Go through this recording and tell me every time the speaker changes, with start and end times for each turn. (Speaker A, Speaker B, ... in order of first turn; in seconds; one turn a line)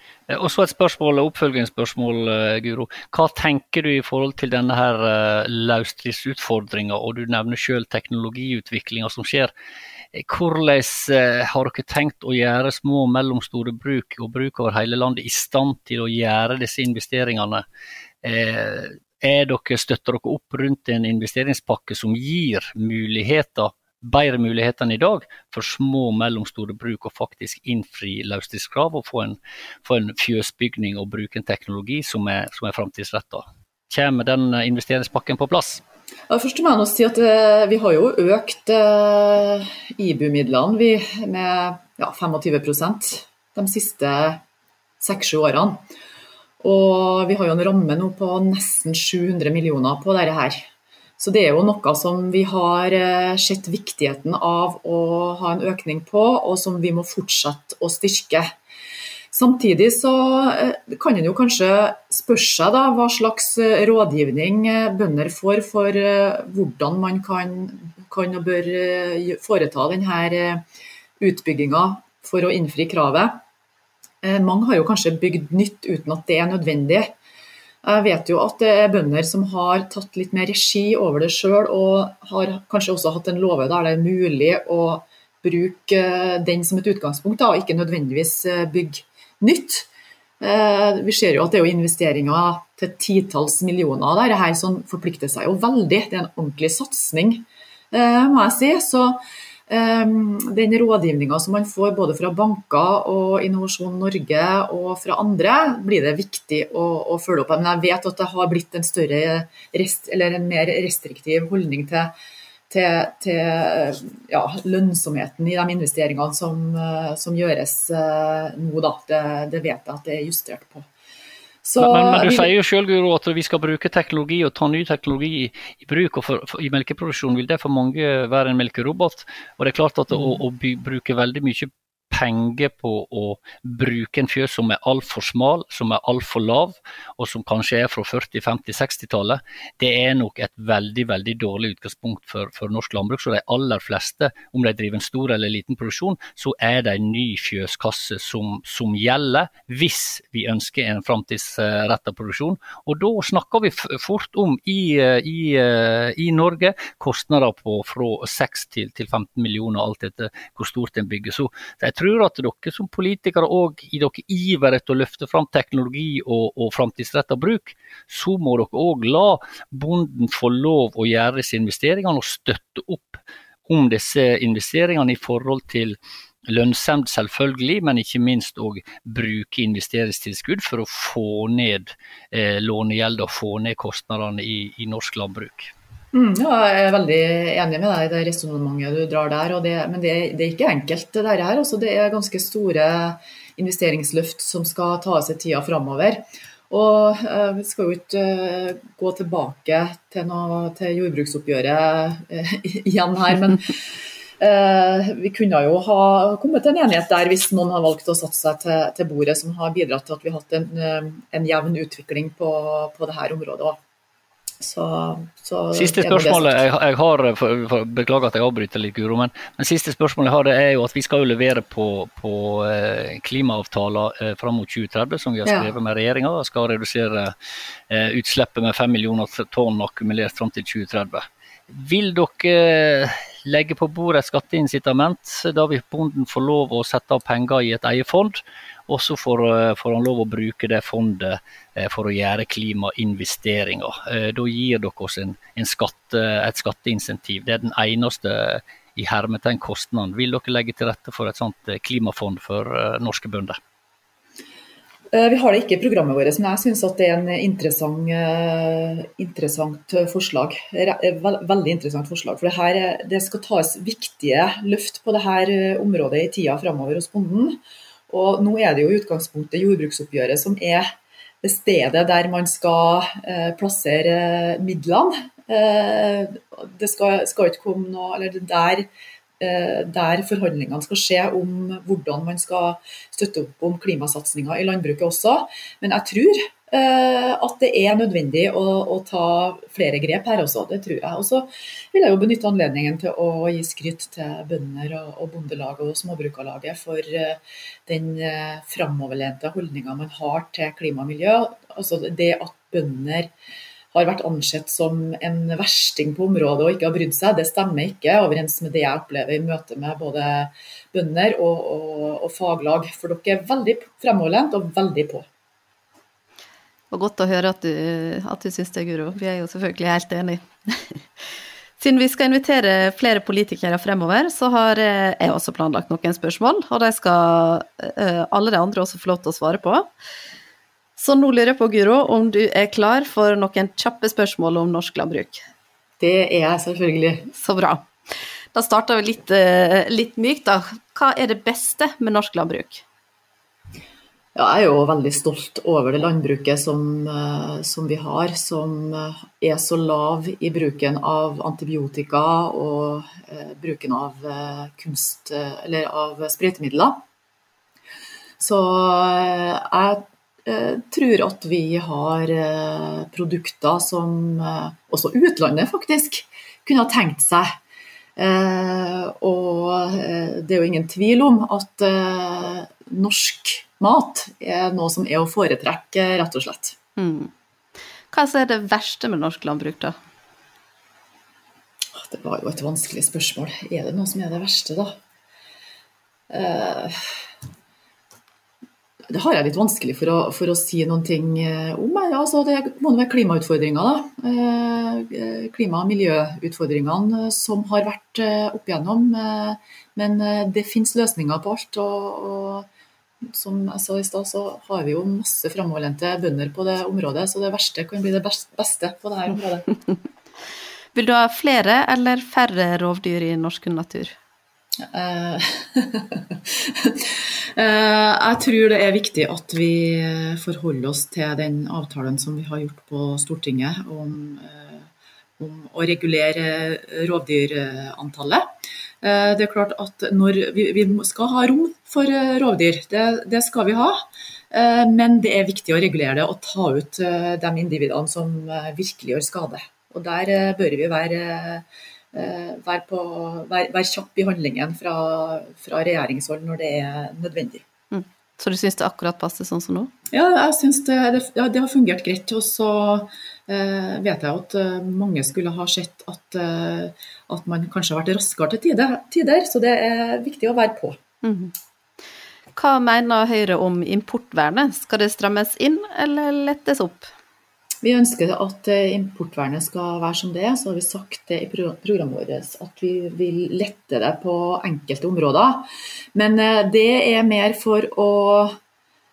Speaker A: 0.3-9.5
Speaker A: 10.1-17.6
Speaker A: 18.2-35.8
Speaker B: 36.3-44.4
Speaker B: 45.0-45.8
Speaker B: 46.6-50.6
Speaker B: 51.2-58.5
Speaker B: 59.3-70.6
Speaker B: 71.2-73.4
Speaker B: 74.2-77.1
Speaker B: 77.8-89.9
Speaker B: 90.4-112.1
Speaker B: 112.7-120.9
Speaker B: 121.6-122.5
Speaker A: 121.8-185.7
Speaker B: 186.1-213.8
Speaker B: 214.6-216.5
Speaker A: 215.7-227.3
Speaker B: 225.4-225.7
Speaker A: 227.9-253.6
Speaker B: 255.1-270.9
Speaker B: 271.4-278.9
Speaker B: 279.4-303.3
Speaker B: 303.9-315.3
Speaker C: 316.9-321.0
Speaker C: 321.8-329.9
Speaker C: 331.0-335.4
Speaker B: 336.0-337.3
Speaker C: 337.3-337.9
Speaker C: 338.5-342.8
Speaker B: 344.3-357.0
Speaker B: 358.4-367.5
Speaker B: 368.2-376.8
Speaker C: 377.0-377.3
Speaker C: 378.1-379.9
Speaker B: 381.9-384.9
Speaker B: 386.3-387.2
Speaker B: 389.1-402.7
Speaker B: 403.2-409.6
Speaker C: 410.9-414.1
Speaker B: 414.8-424.9
Speaker B: 425.4-428.5
Speaker B: 429.0-447.6
Speaker C: 447.9-449.9
Speaker B: 450.1-461.0
Speaker C: 461.2-461.5
Speaker C: 462.5-467.1
Speaker B: 467.8-478.6